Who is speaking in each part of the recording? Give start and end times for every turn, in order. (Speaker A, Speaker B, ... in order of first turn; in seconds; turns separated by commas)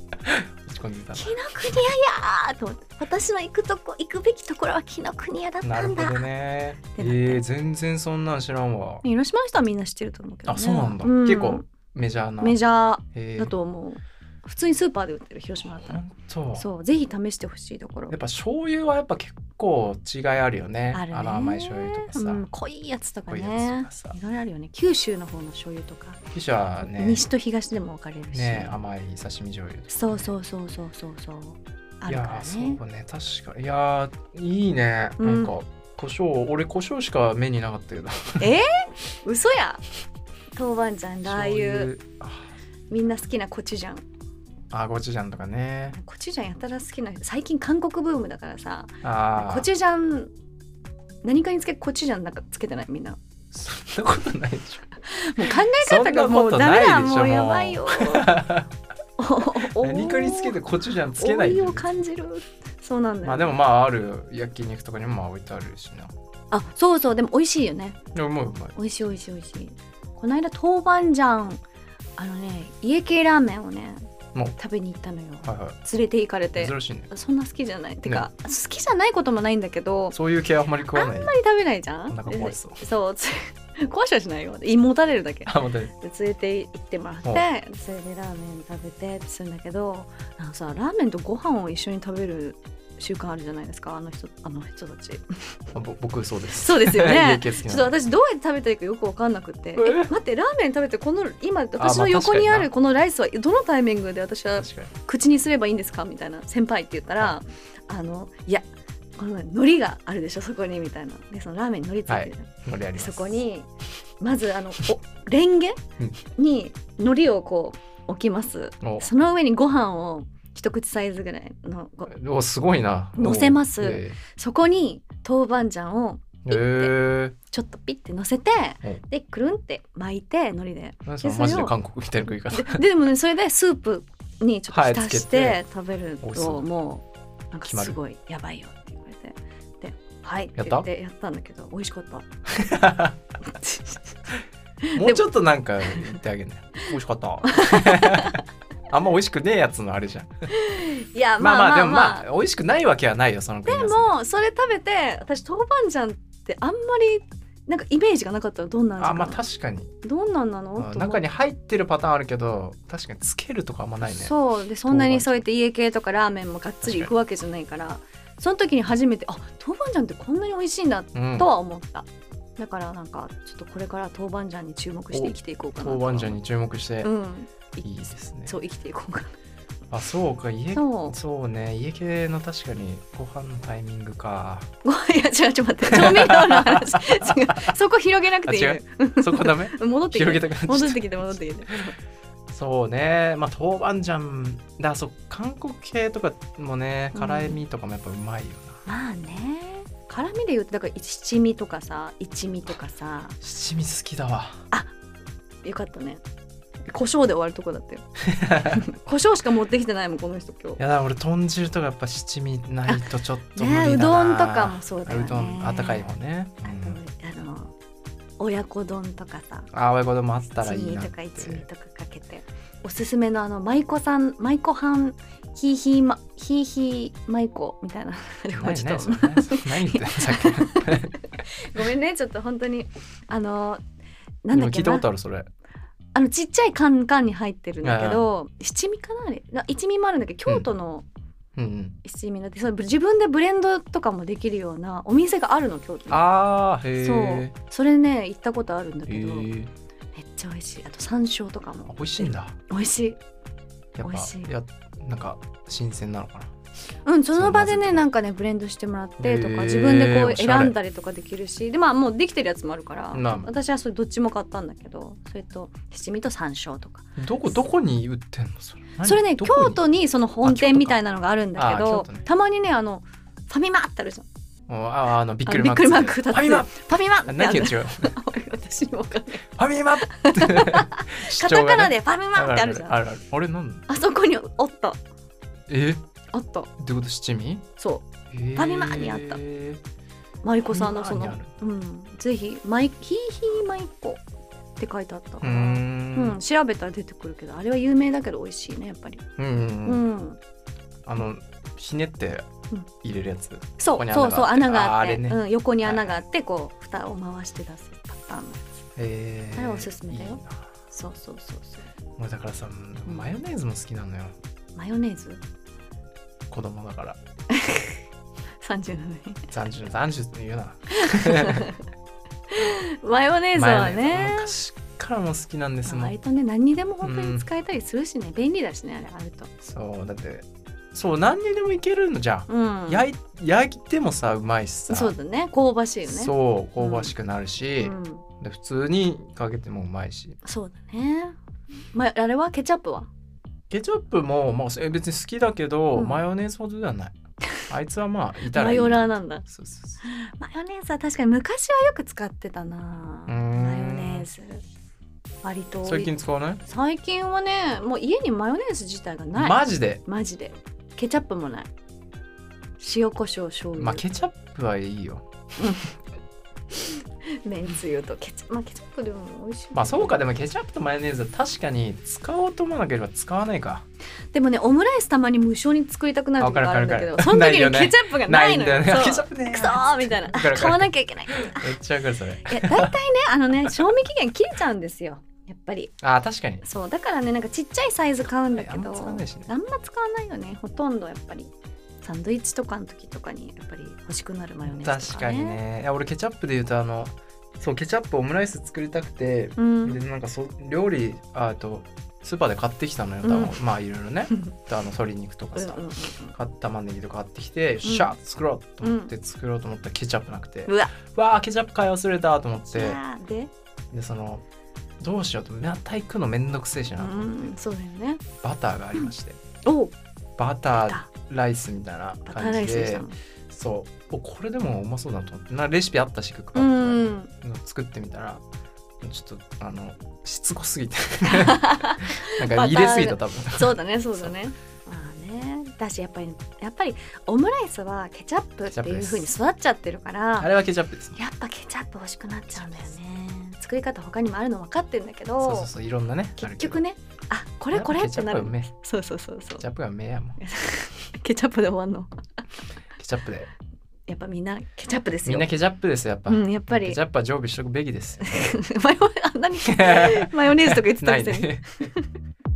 Speaker A: 0.2-1.8, Speaker B: 1.1-6.3, Speaker A: 5.6-9.0, Speaker B: 6.9-7.4, Speaker B: 9.0-11.7, Speaker A: 10.5-12.6, Speaker B: 12.4-16.0, Speaker A: 13.1-13.5, Speaker A: 15.6-16.6, Speaker B: 16.6-18.1, Speaker A: 18.1-22.4, Speaker B: 20.9-26.2, Speaker A: 23.3-24.1, Speaker A: 26.3-27.2, Speaker B: 26.8-28.8, Speaker A: 28.3-30.3, Speaker B: 29.9-32.8, Speaker A: 32.1-38.5, Speaker B: 35.2-35.5, Speaker B: 38.4-39.8, Speaker B: 40.5-41.9, Speaker A: 41.2-42.5, Speaker B: 42.9-44.0, Speaker A: 44.7-46.0, Speaker B: 45.9-50.3, Speaker A: 49.0-49.7, Speaker B: 51.2-53.2, Speaker A: 53.5-54.9, Speaker B: 55.0-58.4, Speaker A: 55.4-58.7, Speaker B: 59.2-60.6, Speaker A: 59.6-62.0, Speaker B: 61.1-63.6, Speaker A: 63.2-66.1, Speaker B: 66.5-68.0, Speaker A: 68.1-68.8, Speaker B: 68.7-71.6, Speaker B: 72.2-74.0, Speaker B: 74.6-80.2, Speaker A: 75.4-75.8, Speaker A: 76.5-77.1, Speaker A: 80.1-81.3, Speaker B: 80.9-95.2, Speaker A: 82.1-82.8, Speaker A: 85.5-85.9, Speaker A: 95.7-97.9, Speaker B: 96.5-108.6, Speaker A: 99.8-100.1, Speaker A: 101.8-102.7, Speaker A: 104.6-104.9, Speaker B: 109.2-113.7, Speaker A: 112.1-113.4, Speaker B: 114.2-115.8, Speaker B: 116.3-122.1, Speaker A: 118.8-119.1, Speaker A: 122.1-124.2, Speaker B: 123.2-131.7, Speaker A: 126.4-127.3, Speaker A: 131.1-132.8, Speaker B: 132.5-142.2, Speaker A: 134.7-135.6, Speaker A: 136.2-136.7, Speaker A: 137.6-138.0, Speaker A: 140.6-140.9, Speaker A: 142.5-143.2, Speaker B: 143.4-144.2, Speaker B: 144.8-145.2, Speaker A: 144.9-150.5, Speaker B: 145.9-146.1, Speaker B: 147.4-148.4, Speaker B: 150.5-152.2, Speaker A: 151.4-154.1, Speaker B: 153.7-159.4, Speaker A: 159.0-159.9, Speaker B: 160.0-161.2, Speaker A: 160.8-164.3, Speaker B: 164.1-172.1, Speaker A: 164.9-165.4, Speaker A: 166.8-167.1, Speaker A: 171.1-171.5, Speaker B: 172.6-176.4, Speaker A: 175.1-177.1, Speaker B: 177.0-179.3, Speaker A: 177.8-178.6, Speaker A: 179.9-184.7, Speaker B: 180.7-181.2, Speaker B: 184.8-192.0, Speaker A: 185.8-187.7, Speaker A: 188.4-191.0, Speaker A: 192.5-198.8, Speaker B: 197.1-197.6, Speaker B: 198.8-203.4, Speaker A: 203.4-204.6, Speaker B: 205.6-206.2, Speaker B: 206.9-208.1, Speaker A: 208.2-208.8, Speaker B: 208.7-210.8, Speaker A: 210.8-217.0, Speaker B: 212.9-216.1, Speaker B: 216.6-217.7, Speaker B: 218.4-219.7, Speaker A: 219.7-221.6, Speaker B: 220.6-233.8, Speaker A: 228.5-231.2, Speaker B: 234.4-235.0, Speaker A: 234.5-235.5, Speaker B: 236.1-241.1, Speaker A: 237.8-238.3, Speaker A: 241.6-242.0, Speaker B: 242.0-246.2, Speaker A: 246.1-247.5, Speaker B: 247.0-249.5, Speaker A: 249.1-249.7, Speaker B: 250.1-253.2, Speaker A: 251.9-252.6, Speaker A: 253.9-256.5, Speaker B: 254.0-254.5, Speaker B: 257.0-267.6, Speaker A: 257.3-258.1, Speaker A: 259.2-260.8, Speaker A: 263.1-263.5, Speaker A: 267.2-269.8, Speaker B: 269.0-274.2, Speaker A: 270.4-271.0, Speaker A: 271.6-272.2, Speaker A: 274.7-276.7, Speaker B: 275.4-279.4, Speaker A: 277.2-278.1, Speaker A: 279.6-283.8, Speaker B: 280.0-283.0, Speaker B: 283.9-285.0, Speaker A: 285.7-286.0, Speaker B: 286.3-286.7, Speaker A: 286.8-287.6, Speaker B: 287.8-289.4, Speaker A: 288.3-289.8, Speaker B: 290.4-294.2, Speaker A: 290.7-291.5, Speaker B: 294.8-299.2, Speaker A: 295.4-296.4, Speaker A: 299.4-300.0, Speaker B: 299.8-300.4, Speaker A: 301.0-302.5, Speaker A: 303.0-306.2, Speaker B: 303.8-308.8, Speaker A: 308.9-310.7, Speaker B: 309.5-311.9, Speaker A: 312.2-314.3, Speaker B: 314.7-315.4, Speaker A: 316.5-317.2, Speaker B: 317.5-318.0, Speaker B: 318.6-319.5, Speaker A: 319.5-321.7, Speaker B: 320.9-321.8, Speaker B: 322.5-324.5, Speaker A: 323.5-326.1, Speaker B: 325.9-329.5, Speaker A: 327.0-327.4, Speaker A: 329.6-335.1, Speaker B: 332.5-333.1, Speaker B: 334.9-337.1, Speaker A: 336.0-340.4, Speaker B: 337.8-338.2, Speaker B: 340.4-341.4, Speaker B: 341.9-343.1, Speaker A: 343.7-347.1, Speaker B: 345.9-346.2, Speaker A: 347.7-350.0, Speaker B: 348.5-349.4, Speaker B: 350.0-354.6, Speaker A: 353.3-354.3, Speaker B: 355.4-361.7, Speaker A: 355.8-356.6, Speaker A: 359.4-360.0, Speaker B: 362.8-364.0, Speaker A: 363.8-365.2, Speaker B: 365.6-365.9, Speaker B: 366.8-370.2, Speaker A: 369.7-373.8, Speaker B: 374.3-381.8, Speaker A: 376.4-382.9, Speaker B: 382.4-385.9, Speaker A: 386.0-386.6, Speaker B: 386.6-395.6, Speaker A: 388.5-389.5, Speaker A: 394.6-413.0, Speaker B: 399.6-400.0, Speaker B: 403.2-403.6, Speaker B: 405.5-406.3, Speaker B: 407.8-408.1, Speaker B: 408.8-409.1, Speaker B: 410.7-410.9, Speaker B: 412.6-413.5, Speaker A: 413.9-414.4, Speaker A: 415.0-417.5, Speaker B: 417.0-418.2, Speaker A: 418.4-419.4, Speaker B: 419.6-419.9, Speaker A: 420.4-428.4, Speaker B: 420.8-421.1, Speaker B: 422.3-423.1, Speaker B: 426.5-427.3, Speaker A: 429.0-434.3, Speaker B: 431.2-440.5, Speaker A: 438.7-439.3, Speaker A: 440.4-441.2, Speaker B: 441.1-445.7, Speaker A: 442.6-442.9, Speaker A: 445.4-446.8, Speaker B: 446.4-449.6, Speaker A: 447.7-448.7, Speaker A: 449.6-450.4, Speaker B: 450.4-452.1, Speaker A: 453.0-453.5, Speaker B: 454.1-455.5, Speaker A: 455.2-458.2, Speaker B: 456.3-457.0, Speaker B: 458.2-462.1, Speaker A: 459.6-461.9